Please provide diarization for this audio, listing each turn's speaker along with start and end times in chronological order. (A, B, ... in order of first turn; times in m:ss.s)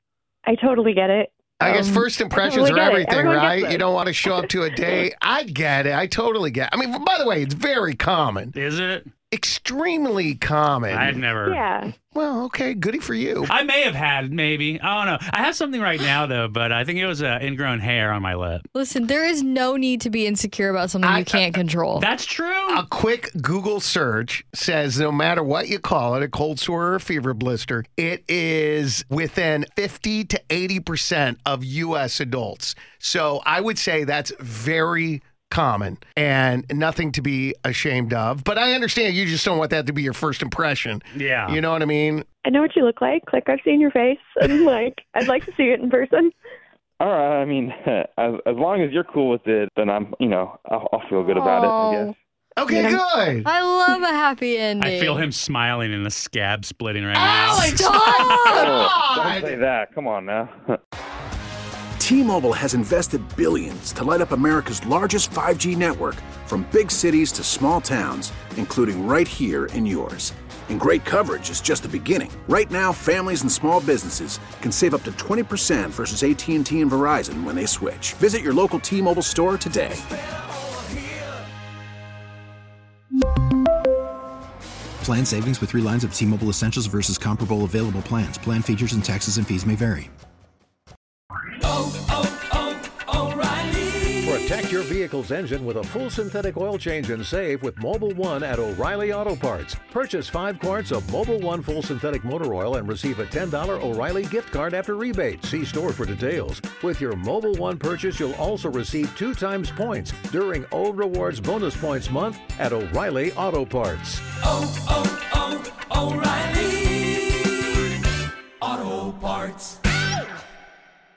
0:00.4-0:04.4 A
0:01.6-0:08.5 B
0:08.5-0:09.1 C
0:09.3-0:11.2 B
0:10.9-0:11.6 C
0:11.4-0:11.9 A
0:12.1-0:13.5 B
0:13.5-0:18.7 C
0:18.7-0:22.1 D
0:21.0-0:21.6 B
0:22.0-0:22.8 C
0:22.7-0:42.2 B
0:41.1-0:41.6 C
0:42.4-0:46.3 A
0:47.0-0:52.2 E
0:51.2-0:52.1 D
0:52.6-0:53.5 B
0:52.7-0:53.0 A
0:53.4-0:55.3 D
0:54.8-0:58.7 C
0:57.2-0:59.6 B
0:57.3-0:58.8 D
0:58.7-1:00.8 E
1:02.0-1:20.0 F
1:25.0-1:30.0 G
1:34.2-1:54.2 H